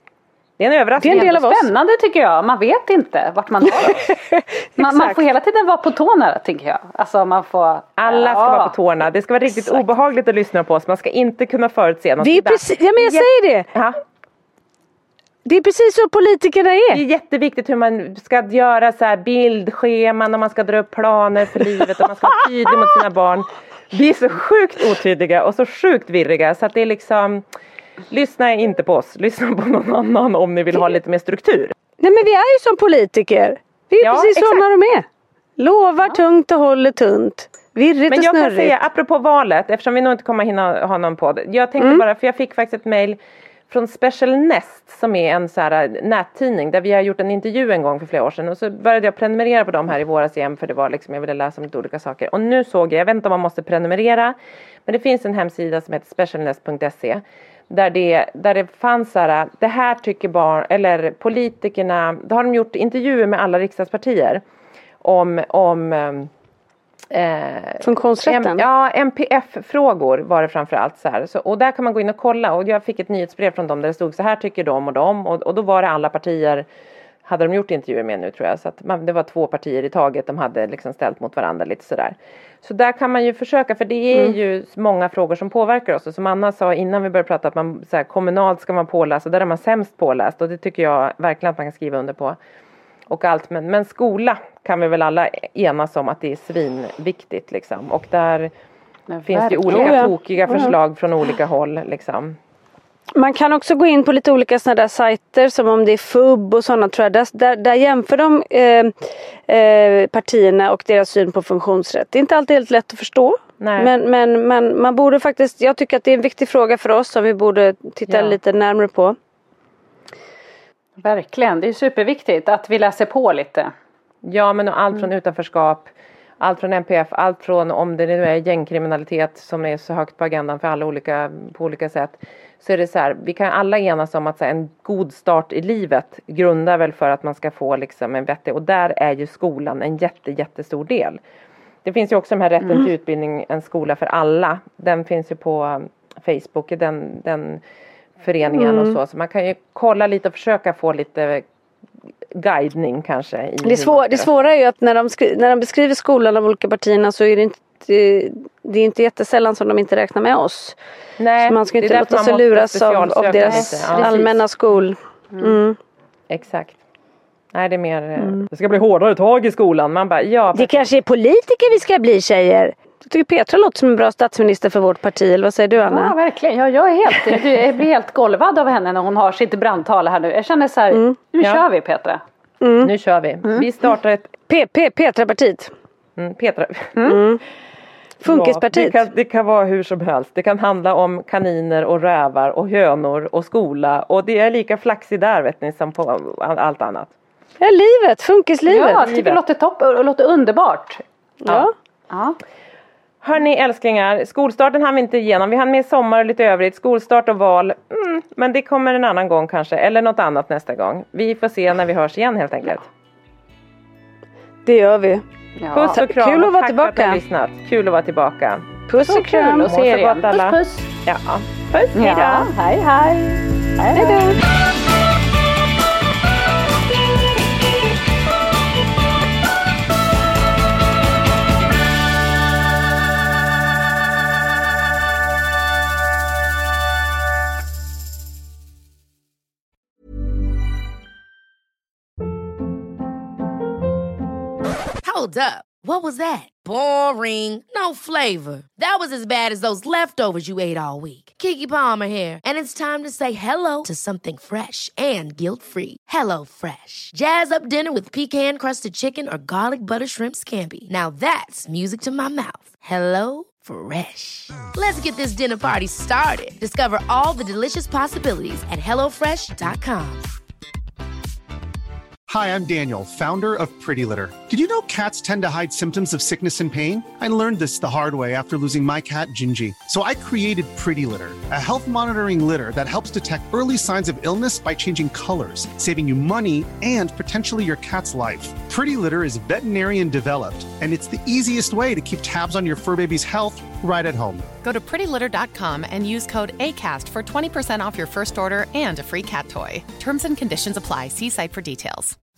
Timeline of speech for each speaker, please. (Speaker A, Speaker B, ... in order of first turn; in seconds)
Speaker A: 0.6-1.6, 8.0-14.0, 16.9-27.4, 28.1-31.7, 34.0-34.6, 38.1-43.2, 43.7-64.4, 65.0-66.3, 67.1-76.7, 77.2-92.4, 93.1-98.5, 99.2-102.4, 113.6-113.9, 124.2-141.2, 141.8-147.6, 148.2-151.4, 152.3-154.3, 161.2-164.4, 166.3-166.8, 167.5-170.9, 182.8-184.3, 186.2-187.2, 188.2-197.1, 198.7-199.4, 203.2-212.9, 215.7-218.9, 219.5-222.5
Speaker B: 1.0-1.6, 3.8-5.2, 12.2-13.7, 15.4-17.0, 32.0-35.0, 35.6-38.8, 41.8-42.0, 67.8-68.6, 99.7-100.7, 103.1-119.2, 148.5-149.0, 153.6-160.8, 161.4-165.8, 168.2-168.4, 170.5-176.1, 180.9-181.2, 182.6-182.9, 184.5-185.7, 187.1-187.4, 188.2-189.0, 197.6-199.1, 201.4-201.7, 214.6-215.2, 215.9-217.2, 218.9-219.7, 223.9-224.4
Speaker C: 1.1-4.0, 4.8-8.7, 99.1-100.1, 121.0-123.7, 163.4-164.2, 165.3-165.6, 175.8-182.2, 186.9-187.2, 198.7-201.0, 202.1-202.4, 215.6-216.0, 219.1-220.9, 221.9-224.3
Speaker D: 245.0-270.3
Speaker E: 272.3-294.5
Speaker F: 294.6-302.2